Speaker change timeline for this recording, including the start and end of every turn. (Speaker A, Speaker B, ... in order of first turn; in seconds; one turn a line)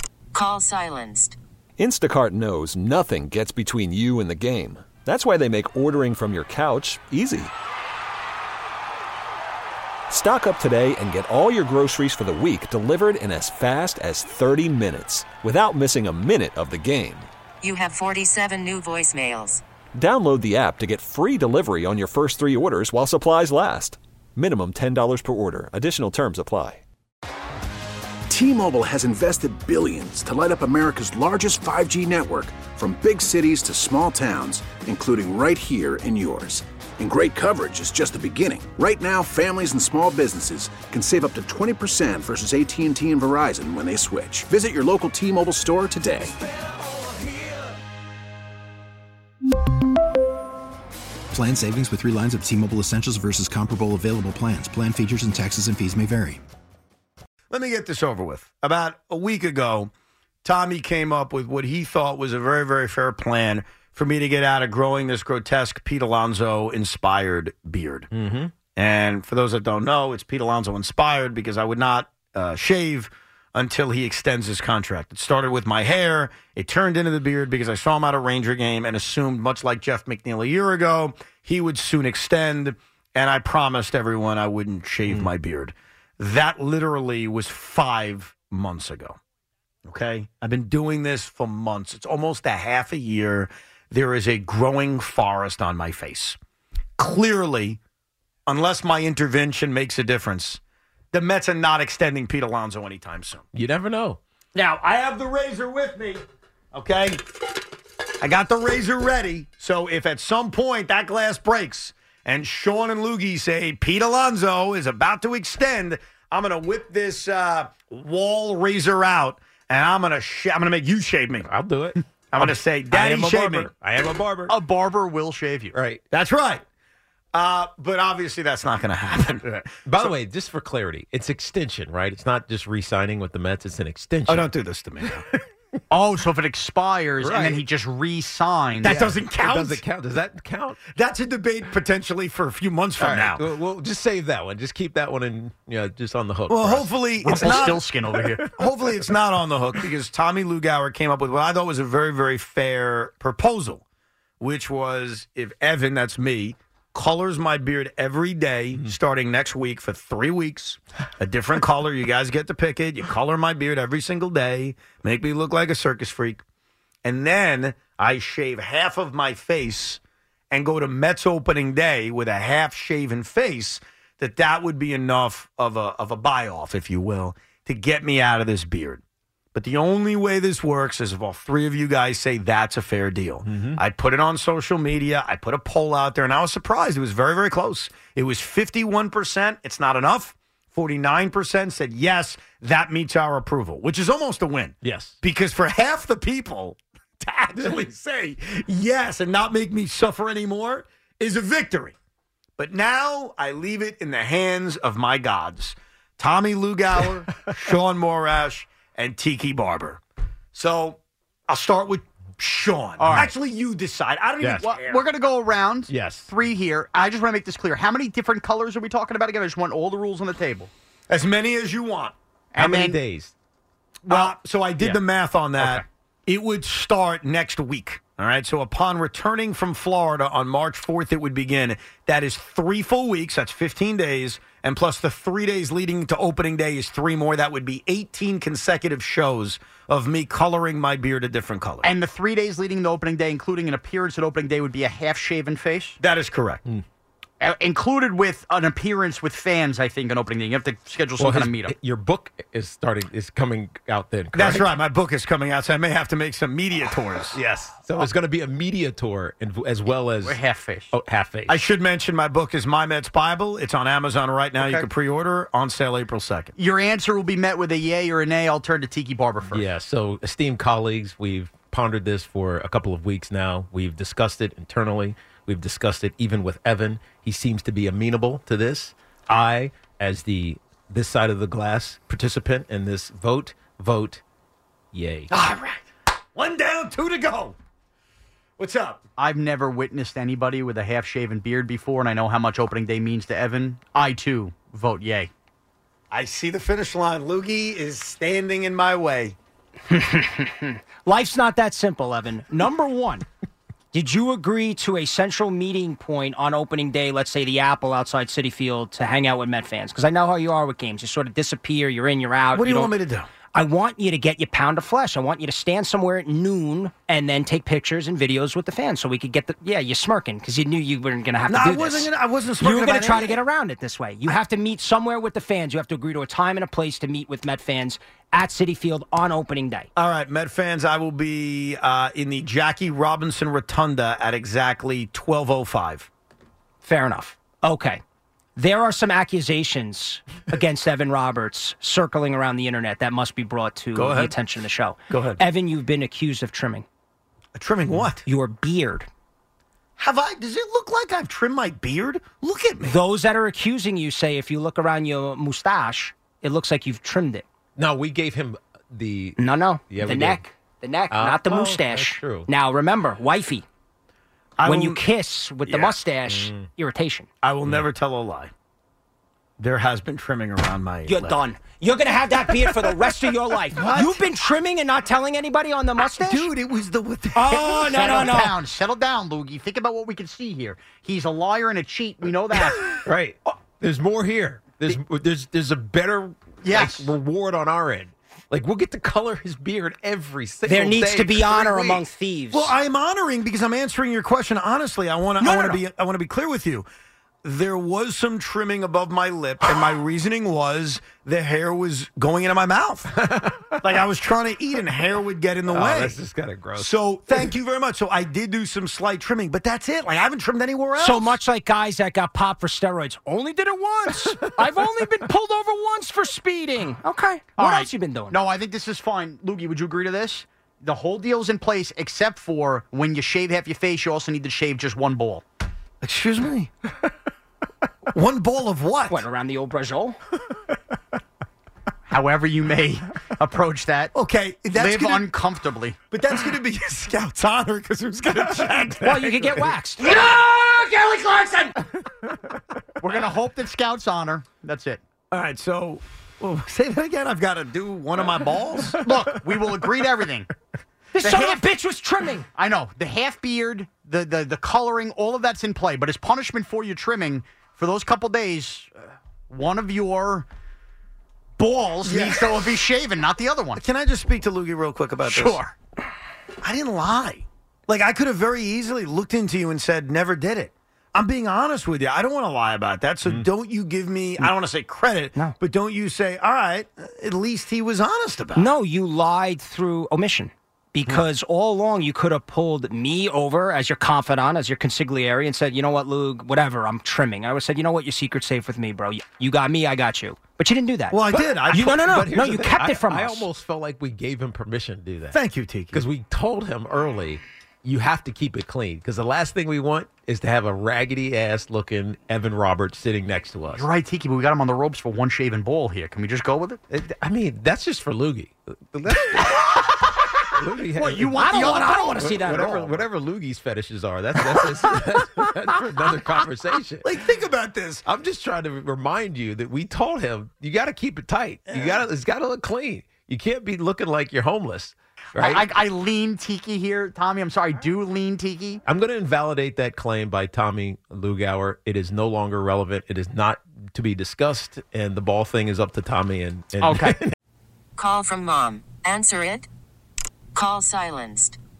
Speaker A: 0.3-1.4
Speaker B: 1.8-7.5
Speaker B: 10.1-17.3
Speaker A: 17.6-19.6
Speaker B: 19.9-26.8
Speaker C: 28.3-46.3
Speaker D: 51.3-56.4
Speaker E: 57.5-59.9
Speaker E: 60.4-68.1
Speaker F: 68.1-68.5
Speaker E: 68.7-89.2
Speaker E: 89.9-96.4
Speaker E: 97.0-97.8
Speaker E: 98.5-100.6
Speaker E: 101.1-103.5
Speaker F: 103.5-104.2
Speaker E: 104.5-106.2
Speaker E: 106.7-107.2
Speaker E: 108.2-121.5
Speaker F: 121.4-124.6
Speaker E: 122.3-123.7
Speaker G: 124.5-125.8
Speaker F: 125.7-126.0
Speaker E: 126.1-126.6
Speaker E: 127.3-130.1
Speaker F: 129.9-135.3
Speaker E: 134.3-135.2
Speaker G: 135.9-139.0
Speaker F: 137.2-137.6
Speaker E: 138.8-139.8
Speaker F: 138.9-140.8
Speaker E: 140.9-143.5
Speaker F: 143.0-149.2
Speaker E: 146.5-147.8
Speaker G: 147.2-148.5
Speaker E: 148.6-153.8
Speaker E: 154.4-166.4
Speaker E: 167.1-170.0
Speaker E: 170.5-179.0
Speaker E: 179.5-201.9
Speaker F: 183.4-183.8
Speaker F: 194.8-195.2
Speaker E: 202.6-210.0
Speaker E: 210.5-215.0
Speaker G: 213.0-213.3
Speaker F: 214.4-214.8
Speaker G: 214.6-220.7
Speaker F: 215.9-216.3
Speaker E: 221.1-222.1
Speaker G: 222.5-223.0
Speaker F: 222.6-223.3
Speaker G: 224.1-224.3
Speaker E: 224.1-241.9
Speaker G: 225.6-225.8
Speaker G: 241.8-246.0
Speaker E: 246.0-246.6
Speaker G: 247.4-251.7
Speaker F: 251.2-254.7
Speaker E: 254.3-257.4
Speaker F: 257.3-260.4
Speaker G: 260.2-260.9
Speaker F: 260.9-261.6
Speaker E: 261.5-266.5
Speaker G: 266.6-269.6
Speaker F: 269.5-284.2
Speaker F: 284.9-285.3
Speaker E: 285.3-287.6
Speaker E: 288.6-289.0
Speaker G: 289.2-295.3
Speaker E: 296.1-299.4
Speaker H: 299.9-303.2
Speaker H: 303.9-312.9
Speaker E: 312.5-313.3
Speaker H: 313.5-329.9
Speaker E: 321.5-323.4
Speaker E: 330.0-336.1
Speaker H: 336.8-338.0
Speaker H: 338.6-346.9
Speaker E: 343.9-344.3
Speaker E: 345.1-345.4
Speaker E: 347.6-348.2
Speaker H: 348.2-349.1
Speaker E: 350.0-353.0
Speaker H: 352.8-357.4
Speaker F: 357.8-359.4
Speaker H: 359.4-363.6
Speaker F: 359.9-360.4
Speaker F: 361.1-362.5
Speaker E: 364.6-365.0
Speaker H: 364.6-367.3
Speaker E: 365.6-366.0
Speaker F: 366.3-366.7
Speaker E: 367.4-368.5
Speaker E: 369.6-371.4
Speaker H: 371.1-376.5
Speaker E: 373.7-374.2
Speaker E: 376.2-378.5
Speaker H: 377.4-378.5
Speaker G: 377.9-383.0
Speaker F: 383.0-392.0
Speaker G: 386.6-387.1
Speaker H: 390.6-392.7
Speaker E: 392.5-396.9
Speaker H: 395.4-395.8
Speaker E: 397.4-403.2
Speaker F: 403.1-403.9
Speaker E: 403.8-406.2
Speaker F: 405.7-407.5
Speaker E: 406.8-411.4
Speaker H: 411.0-418.4
Speaker G: 417.6-425.4
Speaker E: 426.0-426.9
Speaker E: 428.1-429.2
Speaker H: 429.1-430.2
Speaker G: 432.1-434.1
Speaker E: 434.1-435.3
Speaker G: 434.8-436.0
Speaker E: 436.1-439.6
Speaker H: 439.0-441.7
Speaker G: 443.0-445.0
Speaker E: 445.3-449.0
Speaker G: 449.0-450.5
Speaker H: 451.1-452.5
Speaker G: 451.2-451.6
Speaker G: 452.6-460.5
Speaker G: 461.6-463.8
Speaker E: 462.0-462.8
Speaker E: 463.8-465.6
Speaker G: 465.2-465.7
Speaker E: 466.6-478.7
Speaker H: 478.6-493.5
Speaker E: 491.1-492.0
Speaker F: 491.3-503.8
Speaker E: 495.3-496.0
Speaker G: 503.7-506.8
Speaker F: 506.9-509.9
Speaker F: 510.6-517.2
Speaker G: 511.0-513.0
Speaker H: 511.4-512.7
Speaker E: 517.0-518.0
Speaker F: 518.1-525.7
Speaker E: 521.7-522.0
Speaker G: 525.4-528.8
Speaker F: 528.9-537.4
Speaker G: 536.8-537.2
Speaker A: 538.0-539.7
Speaker A: 540.5-541.6